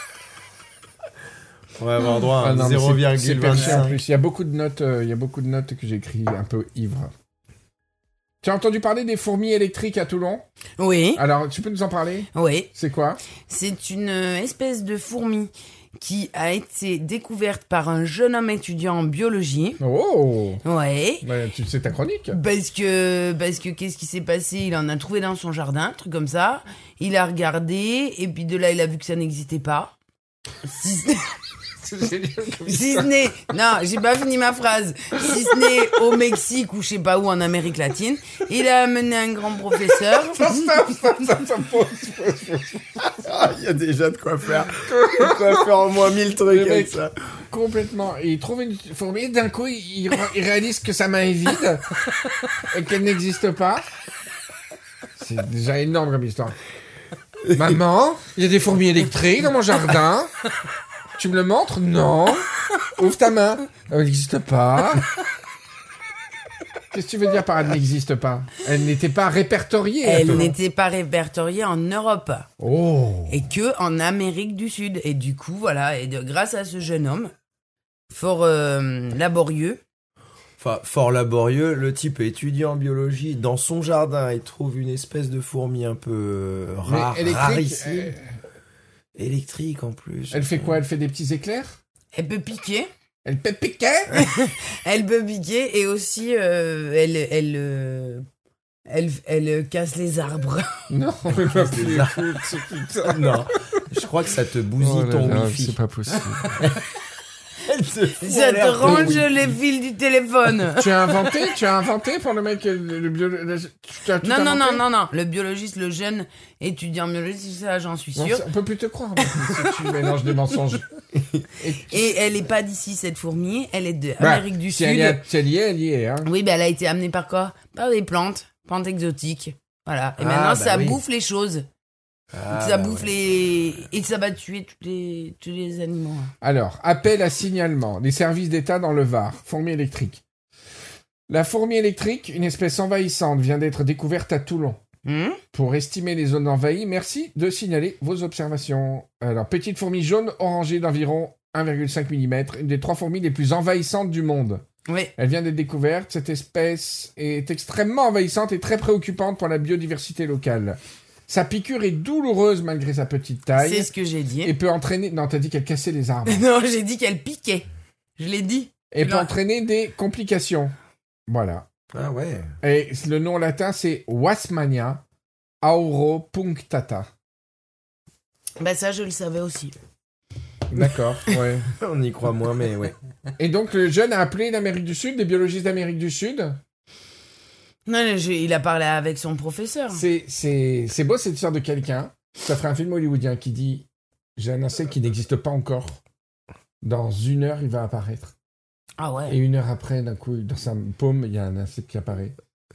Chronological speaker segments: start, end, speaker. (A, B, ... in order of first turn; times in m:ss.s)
0:01.8-0:04.0 A
0:02.4-0:07.1 B
0:08.4-0:10.4 B
0:10.8-0:11.2 C
0:11.1-0:13.2 B
0:12.3-0:12.7 C
0:13.5-0:19.8 C
0:19.8-0:20.6 B
0:20.6-0:21.2 C
0:21.2-0:22.4 B
0:22.3-0:29.9 C
0:30.6-0:31.4 C
0:31.8-0:33.1 B
0:32.6-0:40.6 C
0:40.3-0:43.2 B
0:43.1-0:47.1 A
0:44.8-0:45.7 B
0:46.4-0:47.0 B
0:47.5-0:51.9 B
0:52.6-0:53.8 B
0:55.2-0:56.6 B
0:57.5-1:00.3 B
1:01.2-1:05.1 B
1:06.9-1:10.5 B
1:10.0-1:12.5 C
1:12.6-1:13.5 B
1:13.3-1:17.3 C
1:18.1-1:19.8 C
1:20.6-1:28.1 A
1:26.8-1:28.3 B
1:29.2-1:30.8 A
1:30.3-1:31.8 B
1:32.1-1:32.9 C
1:33.2-1:34.2 B
1:34.1-1:38.2 C
1:38.9-1:40.9 C
1:40.9-1:43.8 B
1:41.3-1:42.4 A
1:43.0-1:45.8 A
1:44.8-1:46.5 B
1:46.5-1:46.8 A
1:47.6-1:49.3 A
1:48.2-1:51.2 C
1:48.8-1:49.4 B
1:50.8-1:54.8 B
1:54.2-1:58.4 C
1:58.2-2:00.8 B
1:59.2-1:59.7 C
2:01.2-2:01.4 A
2:01.6-2:02.2 B
2:01.9-2:05.2 C
2:04.2-2:06.3 B
2:06.2-2:11.7 C
2:10.2-2:11.0 A
2:12.3-2:13.2 A
2:12.5-2:16.3 C
2:16.4-2:20.2 B
2:21.3-2:24.8 B
2:25.0-2:25.4 C
2:25.5-2:34.6 B
2:34.9-2:35.1 C
2:35.2-2:43.9 B
2:43.5-2:44.5 C
2:44.4-2:46.4 B
2:46.3-2:47.6 C
2:48.2-2:49.3 C
2:48.9-2:50.7 B
2:51.3-2:51.7 B
2:51.9-2:52.5 A
2:52.6-2:55.0 B
2:55.6-2:57.1 B
2:58.6-2:59.8 C
3:00.7-3:01.7 B
3:01.7-3:02.9 A
3:03.4-3:06.6 B
3:07.8-3:10.0 C
3:09.9-3:16.0 B
3:16.8-3:18.3 B
3:19.0-3:19.4 C
3:19.3-3:22.3 B